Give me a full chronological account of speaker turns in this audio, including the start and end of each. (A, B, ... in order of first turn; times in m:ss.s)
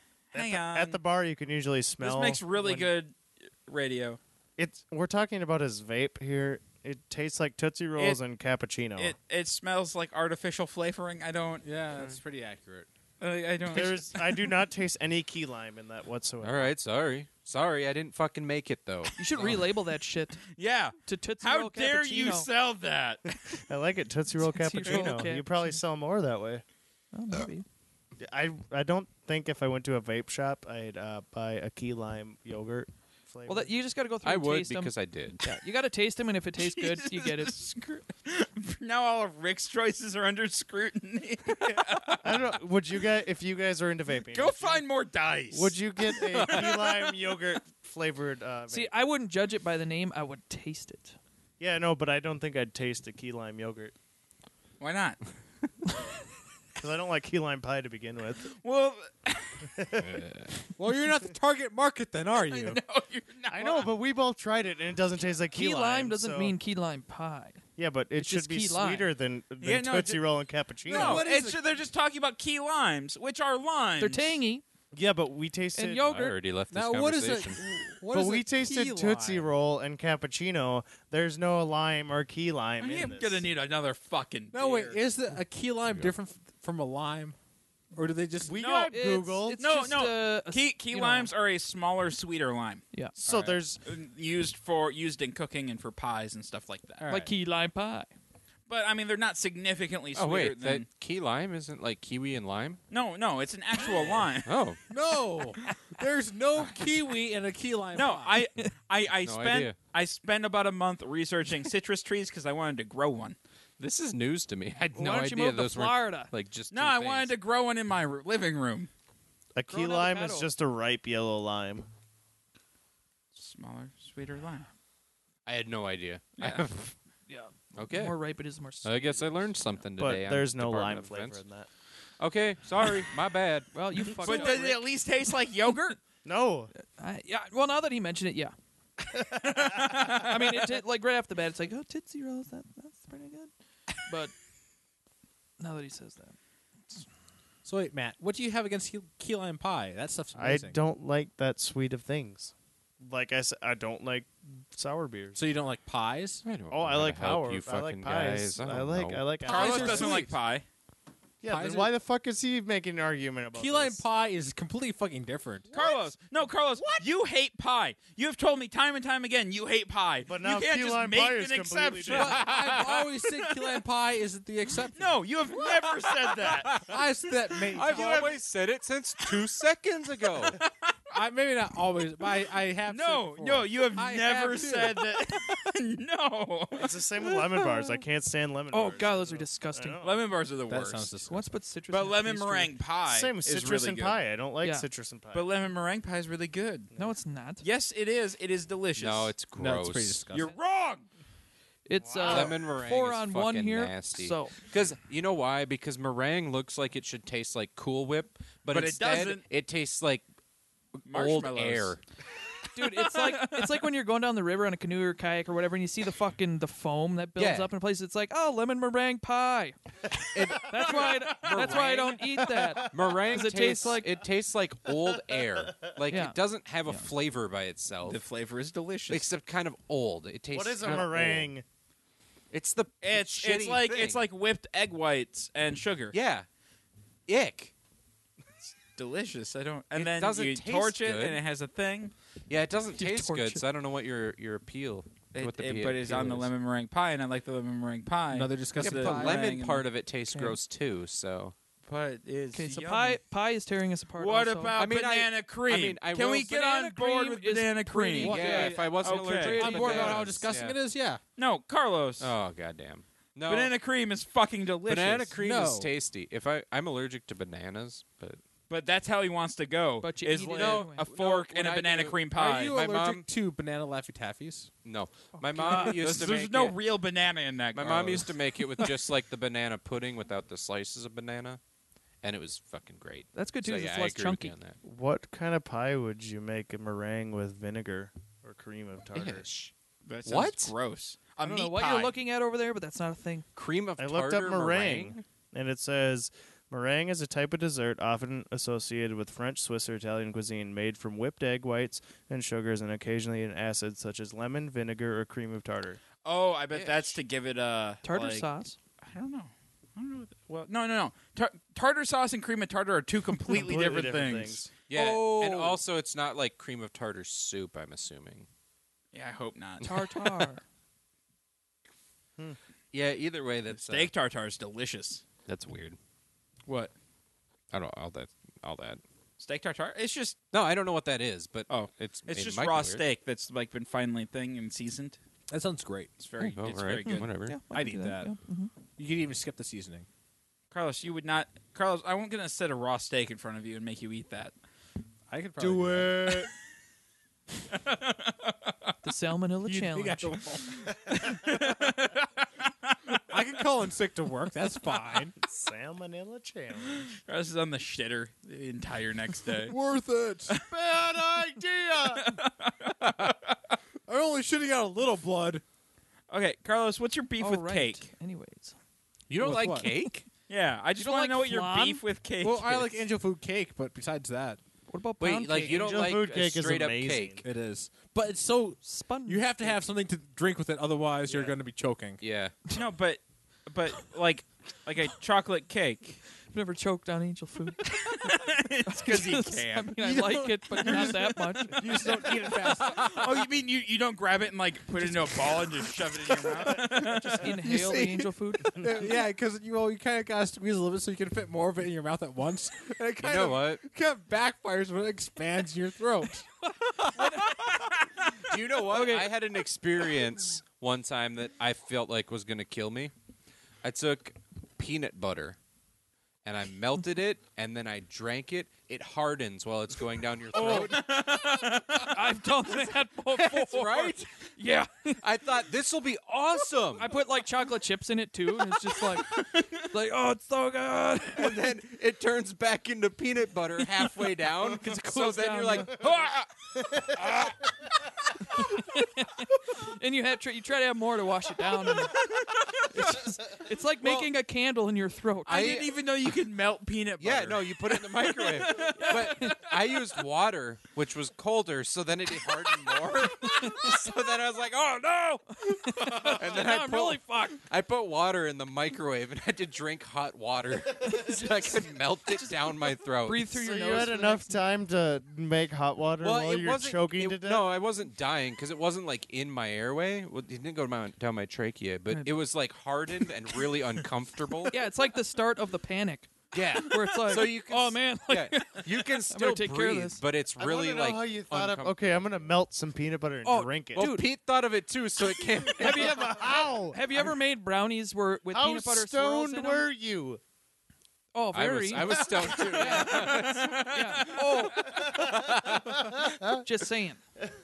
0:00.3-0:01.0 A
0:00.3-0:02.9 B
0:02.0-0:04.2 A
0:04.6-0:09.2 B
0:09.0-0:11.6 A
0:11.6-0:12.9 C
0:13.2-0:14.5 A
0:13.7-0:16.7 B
0:16.4-0:19.5 D
0:19.2-0:20.5 E
0:20.5-0:23.3 A
0:21.1-0:22.5 E
0:23.5-0:26.6 B
0:24.4-0:25.8 E
0:24.8-0:25.1 A
0:27.1-0:27.7 E
0:28.2-0:33.7 B
0:33.5-0:37.6 E
0:34.2-0:35.4 D
0:36.6-0:42.6 A
0:42.2-0:44.8 B
0:44.3-0:47.1 A
0:45.5-0:48.9 B
0:48.7-0:51.2 E
0:51.6-0:53.9 B
0:54.8-0:55.2 A
0:56.8-0:58.6 B
0:58.6-0:59.7 A
0:59.8-1:00.2 B
1:00.0-1:00.6 D
1:00.8-1:02.8 C
1:02.4-1:03.9 A
1:03.5-1:06.6 B
1:05.5-1:07.6 E
1:07.8-1:11.2 B
1:08.2-1:09.1 E
1:09.6-1:10.2 A
1:10.9-1:11.6 C
1:10.9-1:14.4 A
1:14.0-1:14.6 E
1:14.9-1:16.0 B
1:15.7-1:16.4 E
1:16.0-1:17.6 D
1:16.7-1:19.5 C
1:18.1-1:23.4 B
1:22.8-1:25.0 A
1:24.5-1:27.4 C
1:27.9-1:28.6 C
1:28.4-1:29.8 B
1:28.5-1:29.0 A
1:28.9-1:31.3 E
1:29.6-1:32.8 A
1:33.2-1:33.8 B
1:33.3-1:33.6 C
1:33.8-1:37.0 A
1:37.0-1:37.3 C
1:37.1-1:38.1 E
1:38.7-1:40.9 A
1:40.2-1:42.8 D
1:42.9-1:44.6 A
1:44.4-1:44.8 D
1:44.9-1:48.4 C
1:48.0-1:53.4 A
1:49.2-1:49.8 D
1:53.8-1:57.3 D
1:54.9-1:56.3 E
1:56.7-1:58.9 A
1:59.6-2:01.9 B
1:59.7-2:00.5 E
2:03.3-2:04.7 A
2:05.5-2:07.0 D
2:06.4-2:06.7 A
2:07.3-2:09.4 E
2:07.8-2:08.2 D
2:08.8-2:11.4 D
2:10.0-2:11.7 B
2:12.2-2:14.4 D
2:13.7-2:14.8 E
2:14.2-2:16.0 A
2:16.2-2:16.7 B
2:17.0-2:18.5 E
2:19.2-2:20.0 B
2:19.6-2:20.4 A
2:20.1-2:23.5 E
2:24.1-2:24.3 E
2:25.6-2:26.4 E
2:27.6-2:30.8 C
2:30.4-2:35.4 B
2:35.4-2:36.4 C
2:36.4-2:40.3 D
2:36.7-2:40.2 B
2:39.4-2:40.6 A
2:39.6-2:40.2 C
2:41.4-2:44.0 B
2:41.5-2:41.9 C
2:43.6-2:45.7 C
2:45.7-2:46.1 B
2:45.7-2:53.8 A
2:46.8-2:47.0 B
2:50.3-2:52.5 B
2:52.1-2:55.2 C
2:54.9-2:57.0 A
2:56.5-2:57.0 D
2:56.7-2:58.4 C
2:57.7-2:58.4 A
2:57.7-3:00.6 D
3:00.5-3:01.0 A
3:01.1-3:05.0 C
3:02.9-3:06.9 A
3:06.8-3:10.2 B
3:07.2-3:08.0 E
3:08.7-3:10.0 E
3:10.0-3:11.1 A
3:10.7-3:11.6 C
3:11.3-3:12.7 E
3:11.9-3:14.2 A
3:13.1-3:15.5 B
3:14.6-3:14.9 E
3:15.3-3:16.9 A
3:17.0-3:17.6 E
3:17.6-3:19.3 A
3:19.0-3:20.2 D
3:19.6-3:20.5 C
3:20.3-3:21.1 A
3:21.9-3:24.7 E
3:22.0-3:22.6 B
3:22.2-3:30.3 D
3:28.7-3:29.4 A
3:31.0-3:32.0 D
3:31.1-3:32.0 A
3:32.7-3:44.2 E
3:32.8-3:33.7 A
3:37.4-3:37.7 D
3:40.3-3:48.2 D
3:41.5-3:41.8 A
3:42.6-3:43.7 B
3:45.0-3:45.8 B
3:46.1-3:47.1 E
3:48.0-3:49.3 A
3:49.1-3:51.5 D
3:50.5-3:51.6 B
3:52.5-3:54.2 D
3:53.0-3:56.2 A
3:56.1-3:56.5 D
3:57.3-3:57.7 D
3:58.7-4:02.1 A
4:00.0-4:01.4 D
4:02.5-4:06.5 D
4:03.0-4:03.6 E
4:05.3-4:09.9 A
4:08.3-4:09.5 C
4:08.8-4:11.6 D
4:10.3-4:10.6 E
4:11.8-4:13.2 A
4:12.5-4:14.8 E
4:14.2-4:20.2 A
4:14.7-4:16.9 D
4:16.7-4:18.7 E
4:18.1-4:20.8 D
4:18.2-4:21.2 C
4:19.7-4:20.1 E
4:21.4-4:22.3 A
4:22.2-4:23.7 D
4:23.5-4:25.3 A
4:24.9-4:28.4 D
4:25.4-4:25.9 C
4:28.7-4:32.8 A
4:30.0-4:31.1 E
4:30.4-4:33.2 D
4:32.3-4:34.7 C
4:34.8-4:36.8 D
4:35.4-4:36.0 E
4:35.6-4:38.3 A
4:37.7-4:41.6 D
4:42.2-4:44.8 D
4:43.3-4:44.6 E
4:44.8-4:49.5 B
4:49.2-4:49.7 D
4:50.0-4:52.1 A
4:50.2-4:50.7 D
4:51.4-4:53.5 E
4:53.6-4:55.2 D
4:54.0-5:06.0 B
5:06.2-5:08.5 A
5:06.7-5:07.2 D
5:08.0-5:08.8 E
5:09.0-5:15.8 A
5:13.5-5:14.7 B
5:14.9-5:18.5 D
5:19.1-5:19.9 A
5:19.8-5:20.6 E
5:19.9-5:20.3 D
5:22.9-5:24.1 D
5:23.7-5:25.2 A
5:25.5-5:26.0 D
5:26.7-5:26.9 A
5:27.7-5:29.0 D
5:29.4-5:30.4 A
5:30.5-5:33.0 D
5:31.7-5:35.2 A
5:35.5-5:36.1 C
5:36.2-5:37.3 A
5:36.4-5:37.6 D
5:37.5-5:38.7 E
5:37.7-5:38.3 C
5:39.0-5:40.1 C
5:40.7-5:44.5 A
5:45.3-5:46.4 C
5:45.6-5:46.5 A
5:45.6-5:46.4 B
5:47.7-5:48.9 A
5:49.0-5:50.4 E
5:49.6-5:50.8 C
5:51.1-5:53.2 A
5:53.3-5:55.4 C
5:55.4-5:57.2 B
5:57.1-5:59.7 A
5:59.6-6:00.6 C
6:00.6-6:02.3 B
6:02.0-6:03.8 A
6:04.1-6:05.6 C
6:06.3-6:08.1 A
6:07.4-6:08.8 E
6:09.3-6:09.9 C
6:09.4-6:10.2 D
6:10.5-6:13.0 A
6:11.0-6:12.0 E
6:12.4-6:14.6 C
6:14.9-6:16.2 E
6:15.2-6:17.4 D
6:15.6-6:17.4 B
6:17.4-6:22.2 C
6:18.8-6:19.8 E
6:22.2-6:22.6 D
6:22.7-6:26.2 A
6:26.5-6:28.3 E
6:27.9-6:30.0 A
6:28.9-6:32.2 E
6:30.0-6:33.2 C
6:30.8-6:31.2 A
6:31.7-6:37.6 A
6:35.4-6:35.6 E
6:36.7-6:39.2 E
6:37.6-6:38.3 D
6:37.6-6:46.5 C
6:43.2-6:43.8 D
6:47.0-6:47.9 E
6:47.5-6:48.5 A
6:48.4-6:53.1 D
6:48.8-6:49.3 E
6:53.8-6:55.6 D
6:56.4-7:01.2 D
7:00.5-7:05.2 E
7:00.6-7:02.2 A
7:03.3-7:04.5 D
7:05.2-7:07.1 D
7:06.8-7:11.7 E
7:09.3-7:09.9 A
7:11.4-7:16.5 D
7:14.6-7:16.0 E
7:18.4-7:22.3 E
7:22.3-7:22.8 A
7:22.9-7:25.7 E
7:24.0-7:24.3 D
7:25.5-7:25.9 D
7:25.5-7:29.4 A
7:27.2-7:43.5 D
7:28.4-7:29.7 E
7:33.2-7:34.2 E
7:35.5-7:37.6 E
7:42.3-7:42.6 E
7:43.2-7:44.6 E
7:43.5-7:47.7 B
7:46.2-7:54.8 D
7:52.1-7:52.4 E
7:54.7-8:00.2 E
7:56.5-8:02.6 D
8:00.6-8:04.0 B
8:03.4-8:04.3 E
8:04.0-8:06.3 D
8:05.7-8:09.8 E
8:05.8-8:07.3 B
8:08.5-8:10.4 B
8:11.3-8:15.4 E
8:11.5-8:16.6 D
8:16.6-8:17.2 E